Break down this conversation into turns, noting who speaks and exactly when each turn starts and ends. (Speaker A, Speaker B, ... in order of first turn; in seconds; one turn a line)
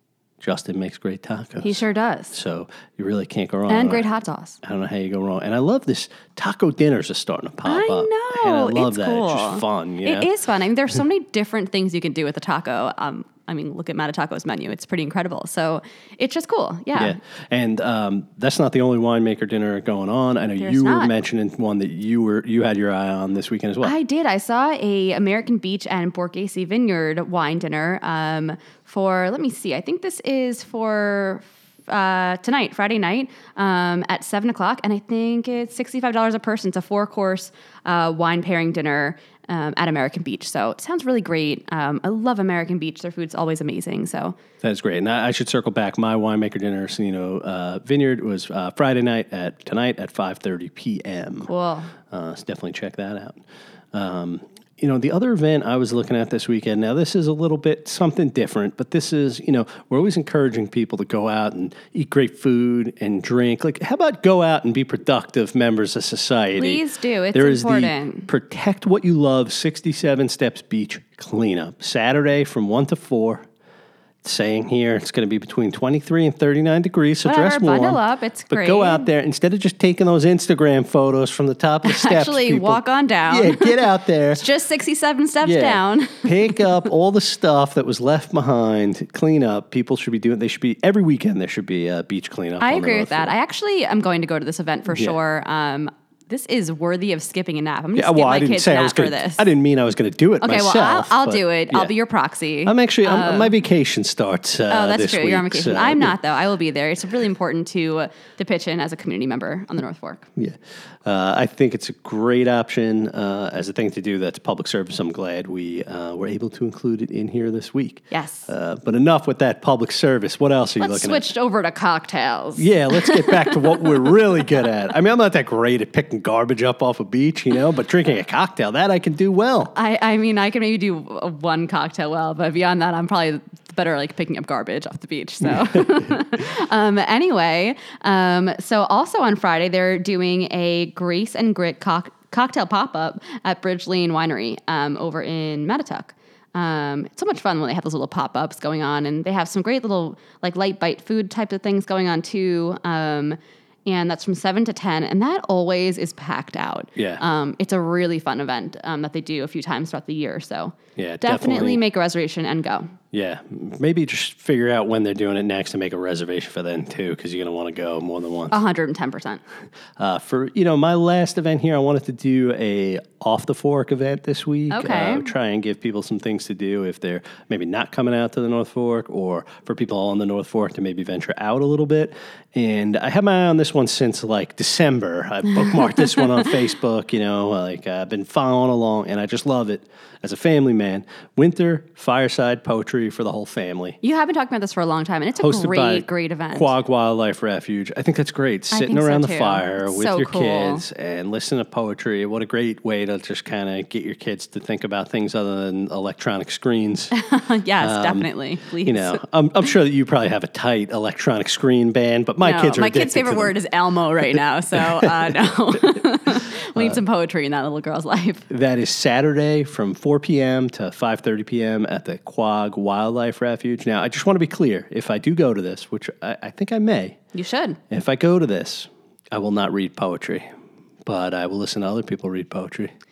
Speaker A: 0.4-1.8
Speaker B: 1.6-2.4
Speaker A: 2.3-4.1
Speaker B: 3.7-4.6
Speaker A: 4.6-10.3
Speaker B: 7.7-17.2
Speaker A: 16.9-23.9
Speaker B: 20.6-21.1
Speaker B: 23.8-44.4
Speaker A: 44.6-51.5
Speaker B: 51.4-51.9
Speaker A: 52.1-53.4
Speaker A: 53.9-66.8
Speaker B: 66.6-68.3
Speaker A: 67.3-73.5
Speaker A: 74.2-84.4
Speaker B: 77.2-79.1
Speaker B: 81.8-86.8
Speaker A: 85.4-93.3
Speaker B: 92.6-99.5
Speaker A: 94.9-95.2
Speaker A: 98.0-101.9
Speaker B: 100.4-103.5
Speaker A: 102.7-106.2
Speaker B: 104.7-110.2
Speaker A: 110.4-121.3
Speaker B: 118.1-118.5
Speaker B: 120.8-123.9
Speaker A: 122.6-129.7
Speaker B: 129.7-162.9
Speaker A: 157.0-157.2
Speaker A: 161.0-161.8
Speaker A: 163.1-168.6
Speaker B: 168.5-169.4
Speaker A: 170.0-194.0
Speaker B: 174.7-175.3
Speaker B: 194.0-196.8
Speaker A: 195.4-207.1
Speaker B: 198.7-200.8
Speaker B: 207.1-209.2
Speaker A: 207.8-213.6
Speaker B: 212.4-218.5
Speaker A: 218.5-227.2
Speaker B: 227.3-227.8
Speaker A: 227.9-230.5
Speaker A: 231.1-232.9